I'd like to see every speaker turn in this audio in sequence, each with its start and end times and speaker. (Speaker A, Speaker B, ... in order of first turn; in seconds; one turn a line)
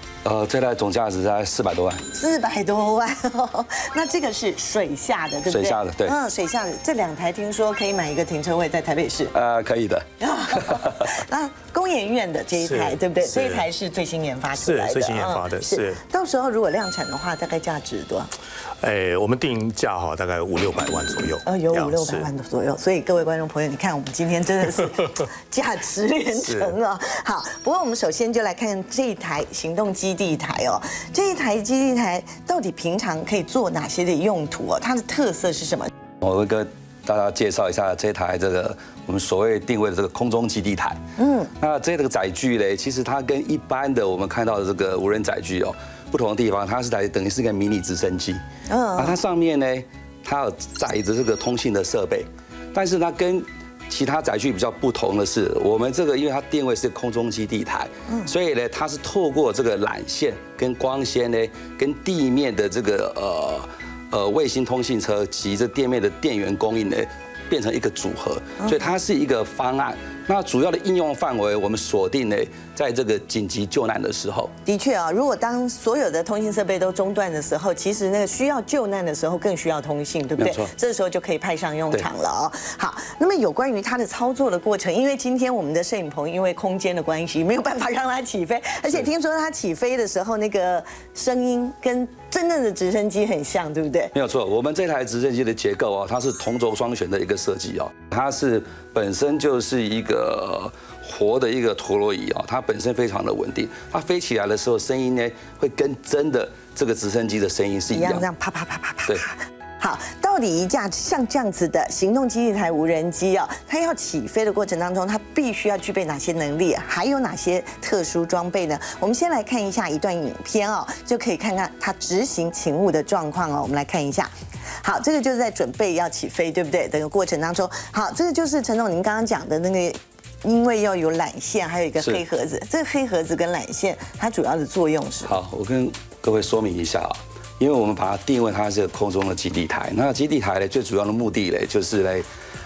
Speaker A: 0.2-2.0
Speaker B: 2.1-9.3
Speaker A: 5.5-6.2
Speaker A: 9.3-10.1
Speaker B: 10.2-18.3
Speaker A: 10.6-11.1
Speaker C: 12.5-13.7
Speaker C: 14.6-16.0
Speaker C: 18.8-22.3
Speaker B: 21.4-35.9
Speaker C: 26.4-26.7
Speaker A: 36.2-41.0
Speaker B: 41.2-41.5
Speaker A: 41.6-48.4
Speaker B: 48.7-49.2
Speaker A: 49.0-74.5
Speaker B: 68.6-69.0
Speaker B: 74.7-94.1
Speaker A: 80.4-80.7
Speaker A: 94.1-108.2
Speaker B: 107.9-124.3
Speaker B: 124.8-135.3
Speaker A: 132.0-132.2
Speaker A: 135.2-142.2